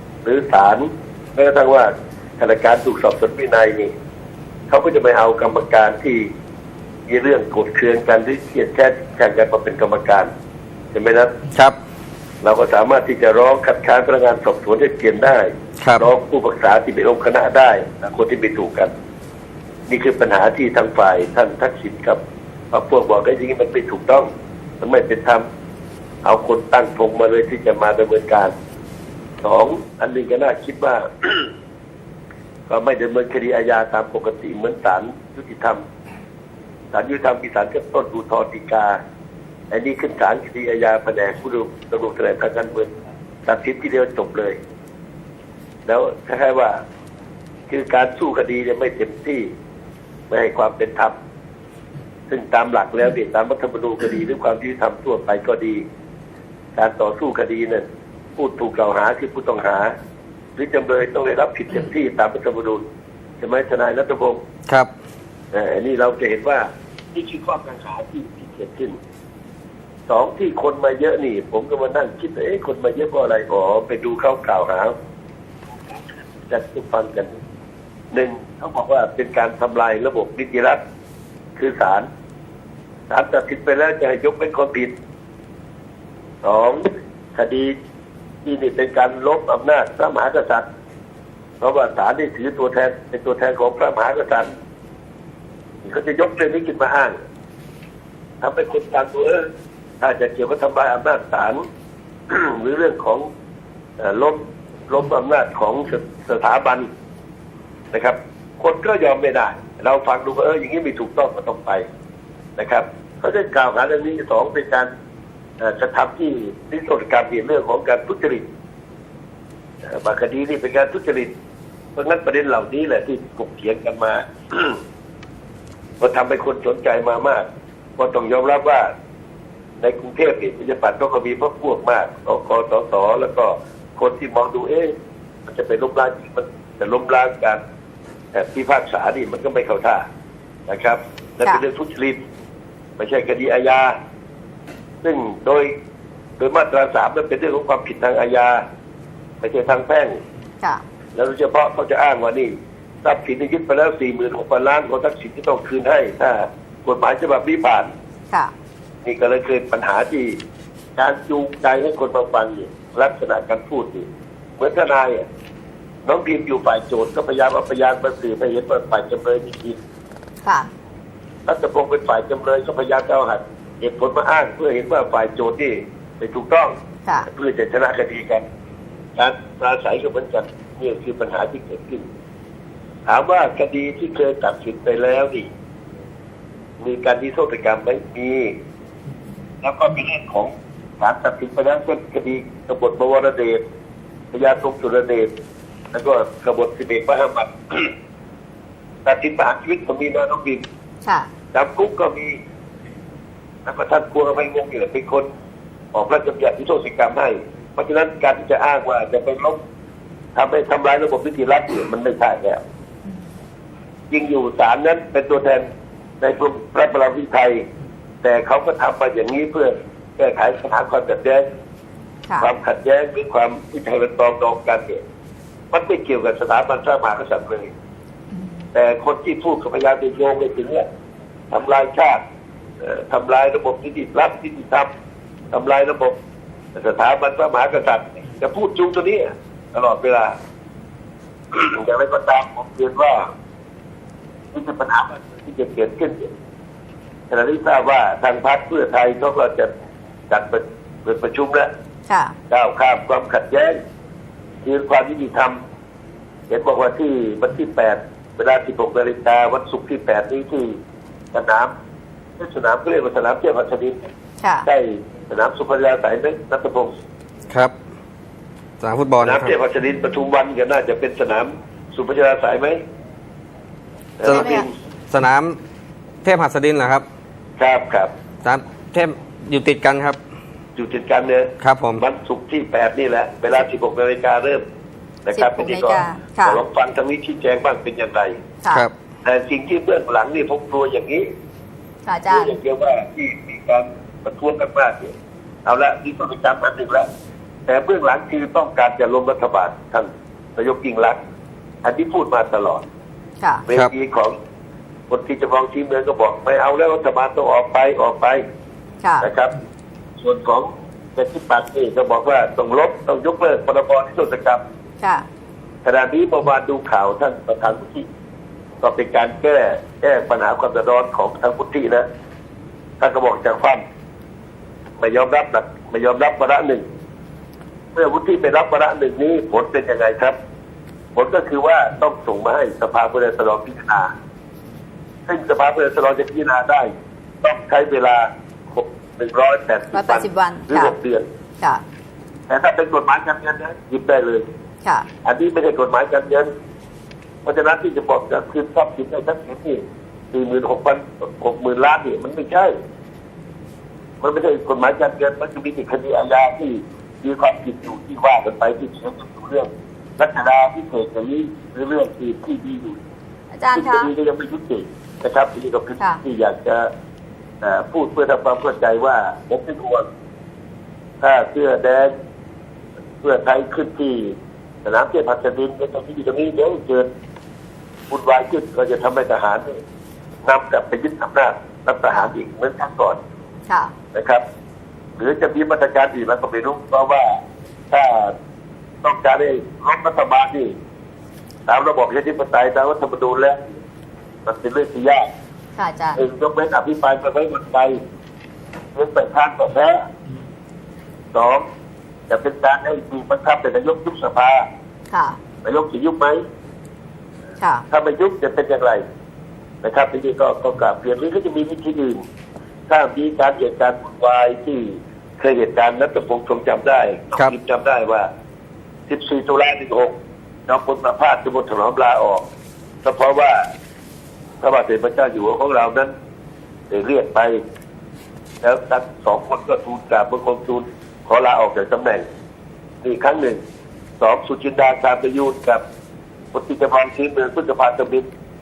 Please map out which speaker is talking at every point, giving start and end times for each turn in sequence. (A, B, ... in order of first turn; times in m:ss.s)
0:00.2-0:03.9 A
0:04.7-0:06.3 A
0:07.1-0:10.3 A
0:10.9-0:11.3 A
0:12.4-0:18.9 A
0:15.8-0:16.0 B
0:19.9-0:22.2 A
0:22.7-0:24.3 A
0:24.8-0:25.4 A
0:26.2-0:28.5 A
0:29.4-0:31.5 A
0:32.7-0:35.8 A
0:36.9-0:39.0 A
0:39.7-0:42.9 A
0:43.5-0:44.6 A
0:45.9-0:46.8 A
0:47.7-0:49.5 A
0:50.3-0:51.1 A
0:52.3-0:55.8 A
0:56.8-0:57.8 A
0:58.4-0:59.9 A
1:00.6-1:02.8 A
1:03.4-1:04.4 A
1:05.5-1:09.0 A
1:10.1-1:14.9 A
1:16.5-1:17.4 A
1:18.1-1:20.8 A
1:21.6-1:22.1 A
1:23.1-1:24.9 A
1:26.4-1:27.7 A
1:28.4-1:30.6 A
1:31.6-1:34.5 A
1:35.8-1:37.2 A
1:38.4-1:39.5 A
1:40.0-1:41.6 A
1:42.3-1:43.3 A
1:44.0-1:46.9 A
1:47.9-1:51.9 A
1:52.6-1:54.9 A
1:55.6-1:58.4 A
1:59.9-2:01.3 A
2:02.0-2:04.8 A
2:06.0-2:07.4 A
2:08.0-2:08.9 A
2:09.8-2:14.9 A
2:15.5-2:17.6 A
2:18.3-2:20.0 A
2:20.7-2:22.2 A
2:23.0-2:24.0 A
2:25.0-2:25.7 A
2:26.4-2:28.6 A
2:29.4-2:30.2 A
2:31.2-2:32.5 A
2:33.0-2:37.9 A
2:39.0-2:40.4 A
2:41.0-2:44.1 A
2:44.6-2:45.2 A
2:46.1-2:49.8 A
2:50.4-2:50.7 C
2:51.5-2:56.7 A
2:57.3-2:58.4 A
2:59.2-3:02.1 A
3:03.1-3:05.5 A
3:06.8-3:08.6 A
3:09.6-3:13.6 A
3:14.3-3:15.3 A
3:15.9-3:17.9 A
3:19.0-3:20.6 A
3:21.5-3:22.4 A
3:23.7-3:25.3 A
3:25.9-3:29.6 A
3:30.4-3:32.6 A
3:34.1-3:35.7 A
3:36.2-3:37.6 A
3:38.2-3:41.4 A
3:42.4-3:45.0 A
3:45.7-3:47.7 A
3:48.7-3:50.8 A
3:51.5-3:52.2 A
3:52.8-3:54.9 A
3:55.5-3:56.2 A
3:56.8-4:00.4 A
4:01.5-4:03.3 A
4:04.5-4:06.3 A
4:07.3-4:09.7 A
4:10.3-4:11.7 A
4:12.1-4:12.4 C
4:12.5-4:13.8 A
4:14.6-4:15.6 A
4:16.5-4:20.8 A
4:21.3-4:21.7 A
4:22.4-4:24.1 A
4:24.4-4:24.7 C
4:24.7-4:26.9 A
4:27.5-4:27.7 B
4:28.8-4:29.5 B
4:29.2-4:32.8 A
4:34.2-4:34.7 A
4:34.2-4:34.6 B
4:34.2-4:34.7 C
4:35.1-4:35.6 B
4:36.2-4:37.0 B
4:37.6-4:38.1 A
4:38.4-4:40.2 B
4:40.8-4:44.6 A
4:41.6-4:42.0 B
4:45.3-4:48.4 A
4:45.4-4:46.6 C
4:49.2-4:51.3 A
4:52.0-4:52.6 C
4:52.3-4:55.1 A
4:55.7-4:57.1 A
4:57.7-5:01.2 A
5:01.8-5:02.8 A
5:03.7-5:04.4 A
5:05.1-5:08.4 A
5:09.0-5:09.3 C
5:09.2-5:09.6 A
5:10.2-5:14.6 A
5:15.8-5:18.1 A
5:18.8-5:22.1 A
5:23.0-5:23.8 A
5:25.0-5:26.9 A
5:28.0-5:30.4 A
5:31.2-5:34.1 A
5:35.3-5:41.3 A
5:39.9-5:41.0 C
5:42.5-5:44.5 A
5:45.2-5:46.5 A
5:47.5-5:52.8 A
5:54.2-6:03.0 A
6:03.5-6:04.1 C
6:03.8-6:06.9 A
6:07.6-6:10.1 A
6:11.2-6:12.1 A
6:13.2-6:17.1 A
6:18.1-6:19.8 A
6:20.4-6:23.2 A
6:23.7-6:23.9 C
6:24.1-6:24.4 A
6:25.2-6:28.3 A
6:29.0-6:30.7 A
6:31.7-6:33.8 A
6:34.5-6:35.3 A
6:35.8-6:36.2 C
6:36.2-6:38.0 A
6:39.0-6:40.0 A
6:41.3-6:41.6 A
6:42.3-6:44.7 A
6:45.1-6:45.4 C
6:45.6-6:46.4 A
6:47.6-6:47.8 C
6:47.9-6:49.0 A
6:49.8-6:52.2 A
6:52.9-6:58.3 A
6:59.1-7:00.1 A
7:00.7-7:02.4 A
7:03.0-7:03.7 A
7:04.6-7:06.1 A
7:06.9-7:07.6 A
7:08.6-7:12.2 A
7:13.0-7:13.6 A
7:14.2-7:15.8 A
7:16.5-7:18.3 A